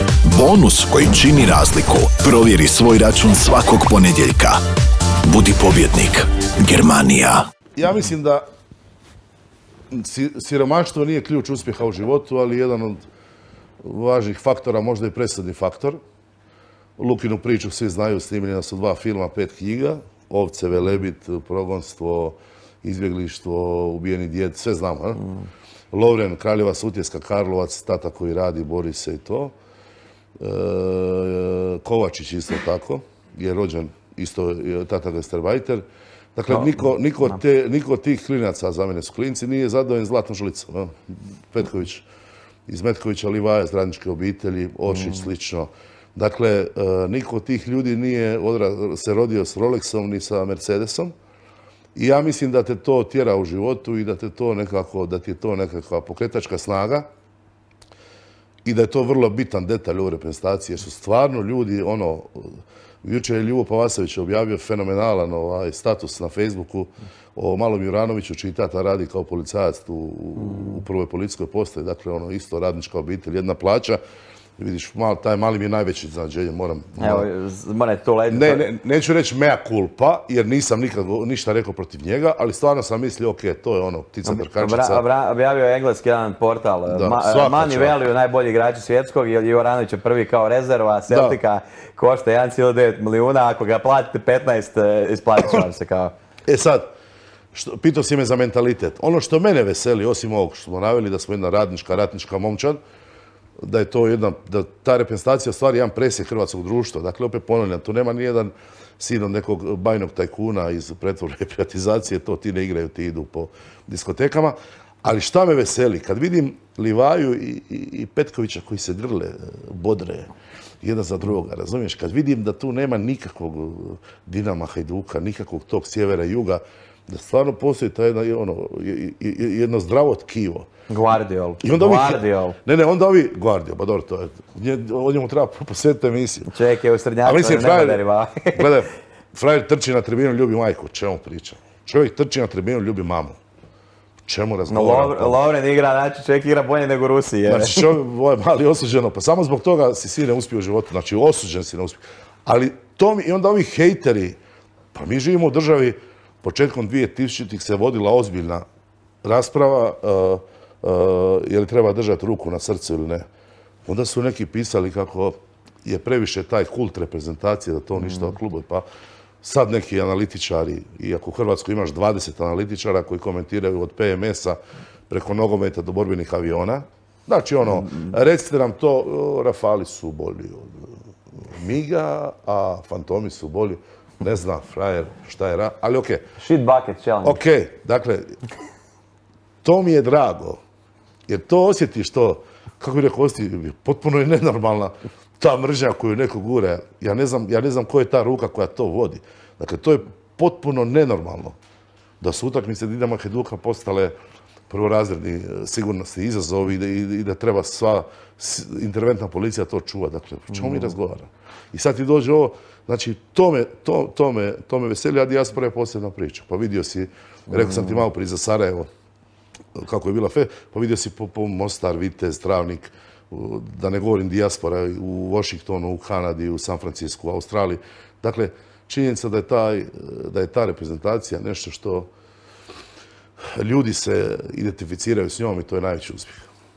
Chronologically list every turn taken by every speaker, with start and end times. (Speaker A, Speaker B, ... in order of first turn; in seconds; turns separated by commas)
Speaker A: 0.2-4.6, Speaker A: 5.2-7.5, Speaker B: 7.8-8.4, Speaker B: 9.9-13.0, Speaker B: 13.8-16.0, Speaker B: 17.0-25.3, Speaker B: 25.9-29.5, Speaker B: 30.4-35.8, Speaker B: 36.3-42.0, Speaker C: 36.5-36.8, Speaker B: 42.7-51.1, Speaker B: 51.9-57.1, Speaker B: 58.6-74.0, Speaker C: 70.4-70.8, Speaker B: 74.6-77.3, Speaker C: 77.0-78.7, Speaker B: 78.3-85.0, Speaker C: 84.2-96.1, Speaker B: 86.9-88.0, Speaker B: 91.1-91.4, Speaker B: 96.5-96.9, Speaker B: 97.5-102.8, Speaker B: 103.6-120.3, Speaker B: 120.8-130.7, Speaker C: 130.9-132.6, Speaker B: 131.6-136.5, Speaker C: 136.5-138.7, Speaker B: 137.2-138.0, Speaker B: 138.5-143.4, Speaker B: 144.2-145.4, Speaker C: 144.7-147.9, Speaker B: 147.5-154.4, Speaker B: 154.9-158.6, Speaker B: 159.2-163.2, Speaker B: 163.8-168.8, Speaker B: 169.4-174.6, Speaker B: 175.1-186.2, Speaker C: 186.4-187.4, Speaker B: 187.2-188.4, Speaker B: 189.6-190.6, Speaker B: 191.3-201.6, Speaker B: 202.2-204.1, Speaker B: 204.7-218.9, Speaker C: 217.5-218.0, Speaker B: 219.7-232.1, Speaker B: 233.5-236.5